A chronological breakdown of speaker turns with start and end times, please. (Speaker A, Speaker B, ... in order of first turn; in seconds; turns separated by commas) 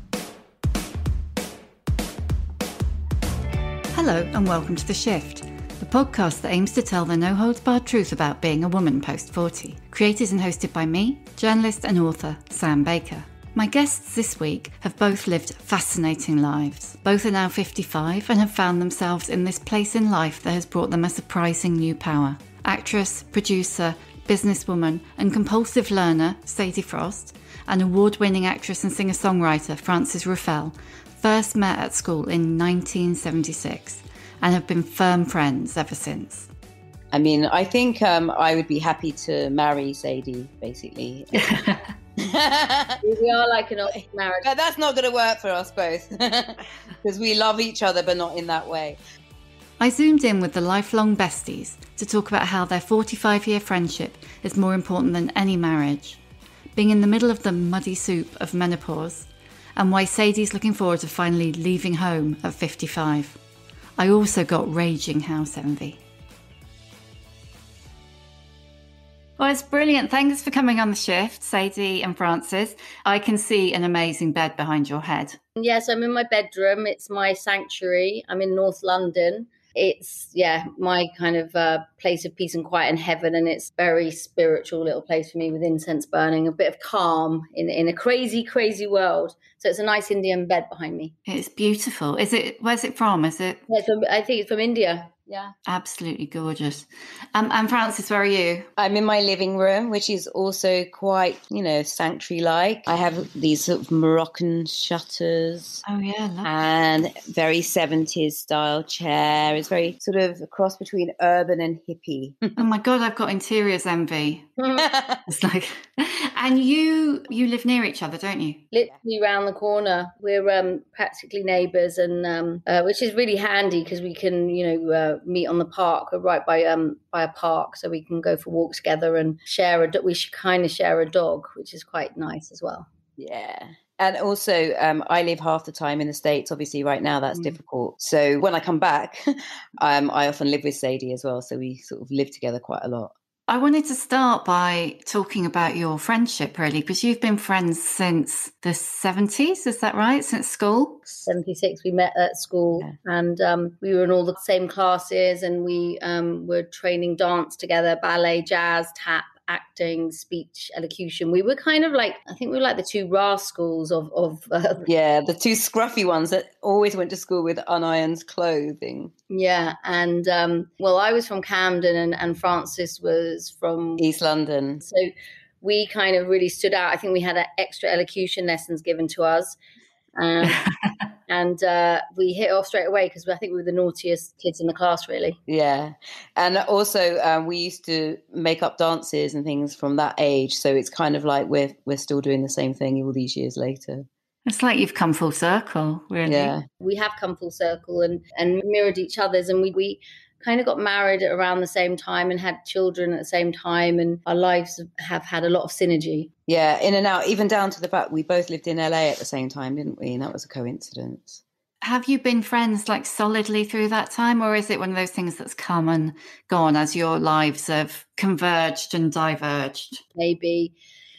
Speaker A: 3.9-36.5, Speaker B: 37.1-41.5, Speaker A: 41.3-41.8, Speaker B: 42.2-43.0, Speaker C: 43.0-44.5, Speaker B: 44.4-49.0, Speaker A: 49.8-56.2, Speaker A: 56.8-63.4, Speaker A: 64.0-66.0, Speaker A: 69.4-75.4, Speaker C: 75.6-91.1, Speaker A: 91.3-93.6, Speaker C: 93.7-95.5, Speaker A: 95.7-98.7, Speaker B: 98.8-105.8, Speaker A: 105.8-106.5, Speaker B: 106.4-112.6, Speaker A: 112.6-114.5, Speaker C: 114.6-114.8, Speaker B: 114.8-115.2, Speaker A: 115.3-118.6, Speaker C: 118.7-132.9, Speaker B: 133.2-143.1, Speaker A: 143.5-151.3, Speaker C: 151.3-164.9, Speaker B: 164.9-169.1, Speaker C: 169.3-174.0, Speaker B: 174.0-174.8, Speaker C: 174.8-179.6, Speaker C: 180.2-180.7, Speaker C: 181.3-185.4, Speaker B: 185.5-194.1, Speaker A: 194.5-196.5, Speaker B: 196.2-196.7, Speaker C: 196.8-206.3, Speaker B: 206.5-211.4, Speaker A: 211.8-220.0, Speaker C: 220.2-220.8